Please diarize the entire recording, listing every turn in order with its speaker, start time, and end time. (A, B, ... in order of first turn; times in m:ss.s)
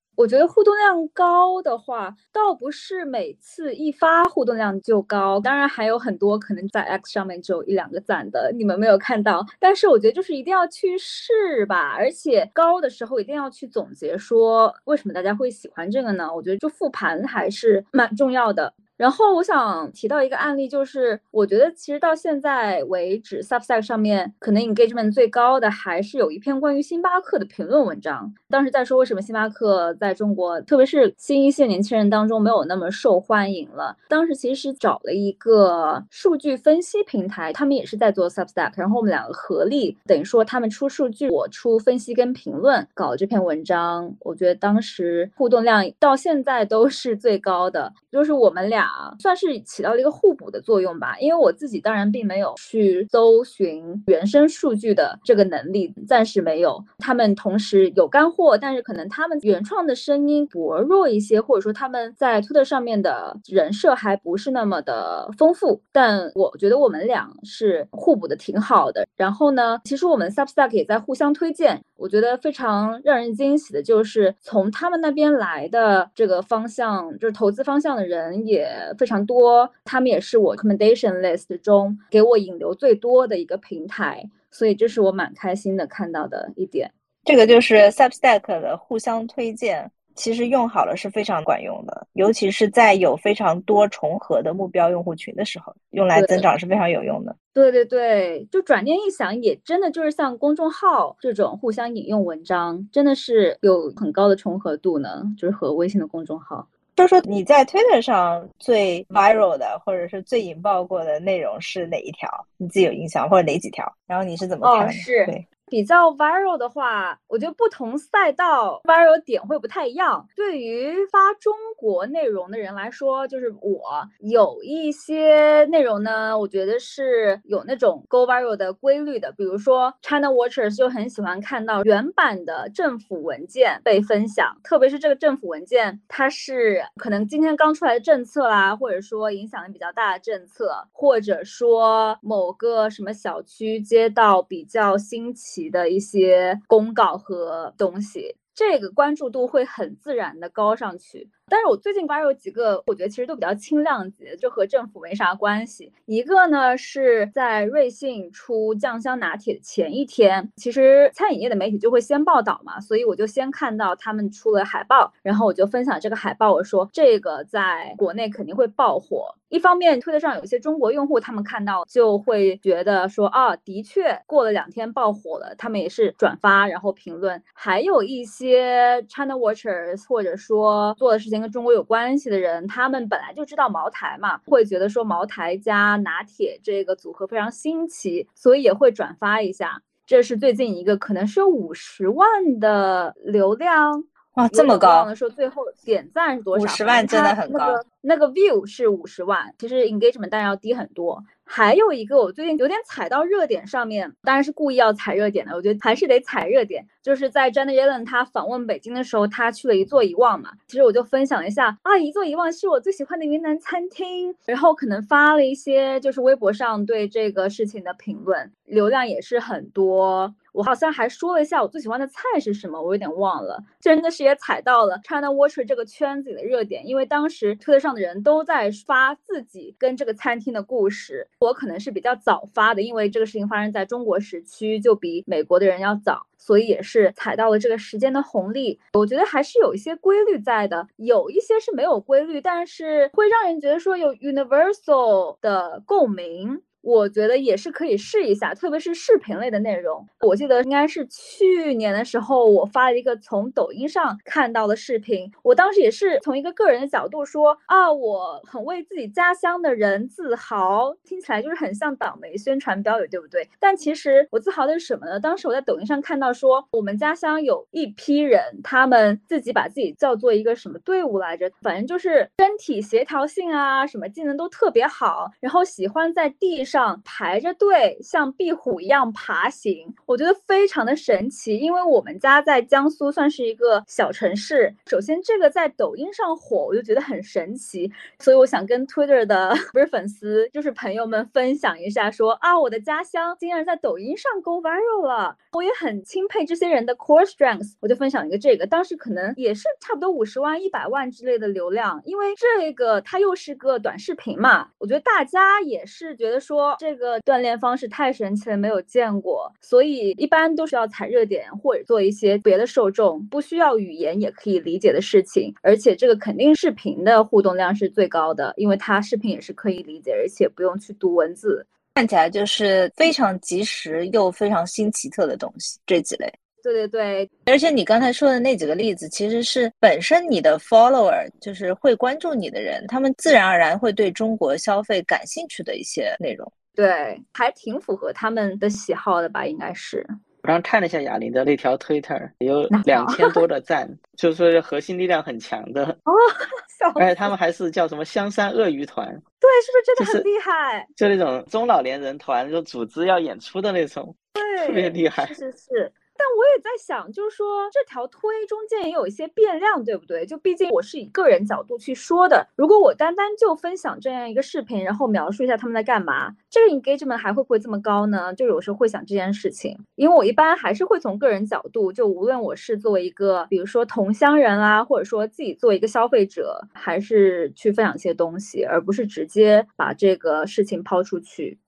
0:00.2-1:26.9 A
1:27.2-1:37.3 B
1:36.1-1:36.5 A
1:37.5-1:46.7 A
1:47.0-1:55.4 B
1:54.6-5:21.7 A
3:14.3-3:15.1 B
3:16.5-3:17.8 B
5:21.9-5:26.3 B
5:26.6-5:27.3 A
5:27.5-5:36.5 B
5:36.8-5:40.1 A
5:40.4-5:46.0 C
5:42.7-5:43.4 A
5:46.0-5:47.3 A
5:47.0-5:49.2 C
5:49.4-5:50.9 A
5:50.0-5:50.2 C
5:51.0-5:55.4 C
5:54.4-6:21.6 A